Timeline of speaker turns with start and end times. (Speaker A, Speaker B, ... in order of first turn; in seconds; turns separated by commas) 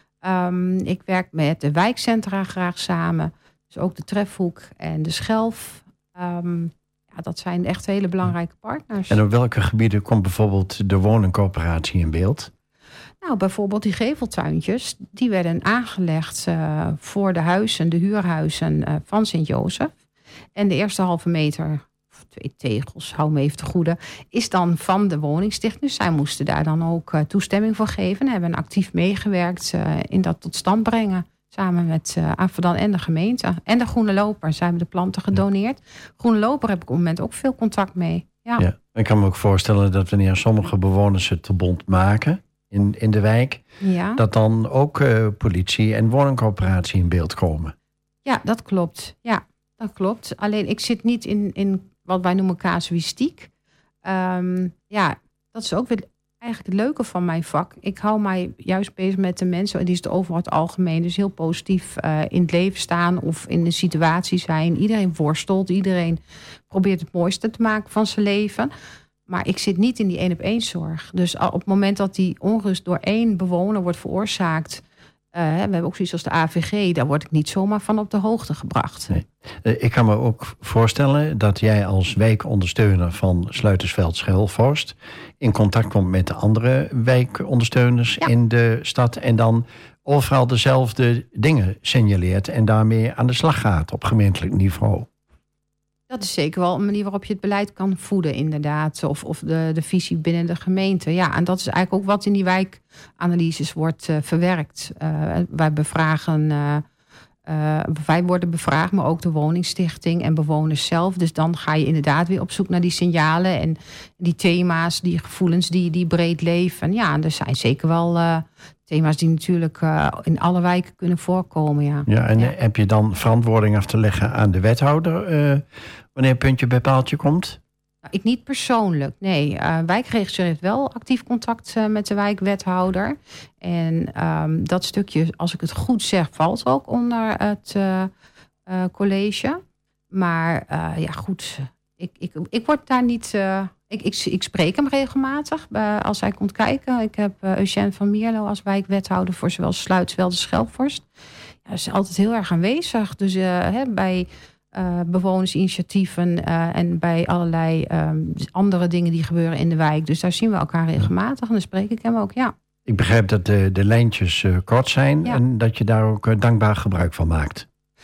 Speaker A: 0.2-9.2, Speaker B: 9.1-12.5, Speaker A: 13.2-19.9, Speaker A: 20.6-38.6, Speaker B: 38.6-43.6, Speaker A: 43.8-44.2, Speaker B: 44.1-47.7, Speaker A: 48.2-53.5, Speaker A: 54.0-68.7, Speaker A: 69.3-79.1, Speaker B: 79.1-95.1, Speaker A: 96.1-106.8, Speaker A: 107.5-122.5, Speaker B: 122.1-127.6, Speaker A: 128.1-138.1, Speaker A: 138.7-151.0, Speaker A: 151.7-162.5, Speaker B: 162.8-167.7